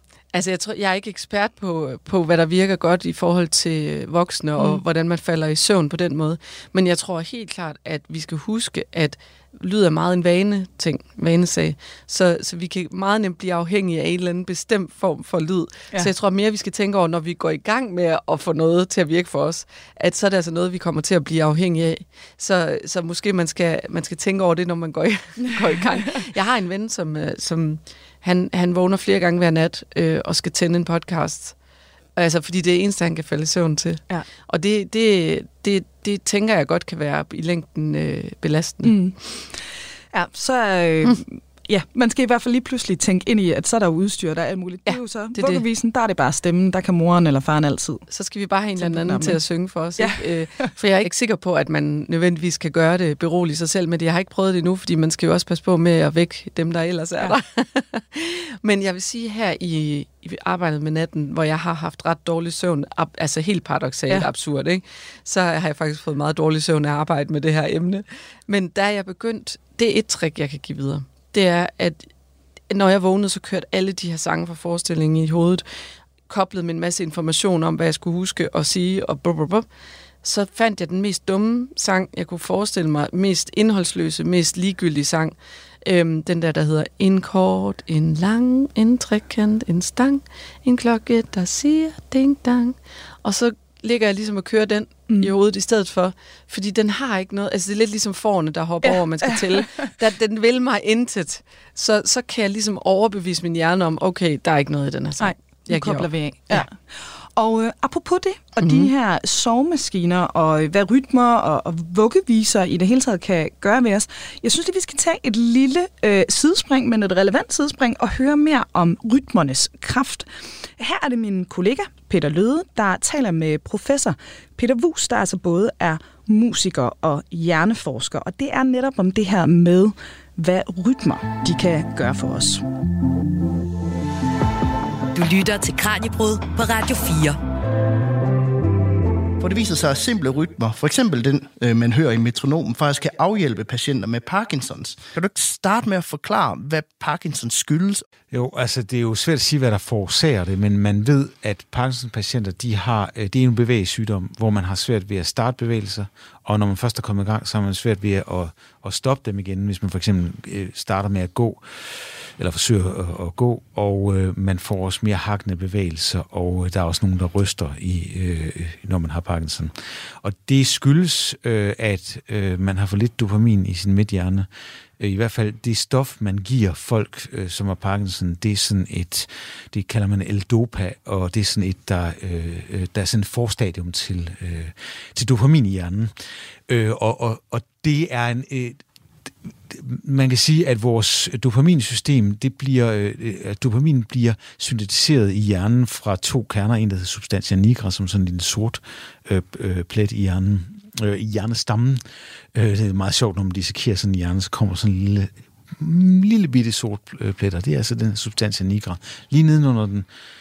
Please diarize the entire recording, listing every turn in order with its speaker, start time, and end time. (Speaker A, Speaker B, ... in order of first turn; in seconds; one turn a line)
Speaker A: 0.3-31.6
Speaker B: 25.5-26.2
Speaker A: 32.2-39.0
Speaker B: 38.8-39.2
Speaker B: 40.1-48.1
Speaker A: 44.9-45.6
Speaker A: 48.1-72.1
Speaker B: 48.8-49.4
Speaker B: 50.0-50.7
Speaker A: 72.7-75.7
Speaker A: 76.3-79.7
Speaker A: 80.2-106.7
Speaker B: 98.8-99.9
Speaker B: 105.2-132.6
Speaker A: 108.6-108.9
Speaker C: 135.1-137.4
Speaker D: 139.4-148.0
Speaker E: 148.3-174.5
Speaker E: 175.0-186.1
Speaker E: 186.7-202.0
Speaker E: 202.5-210.1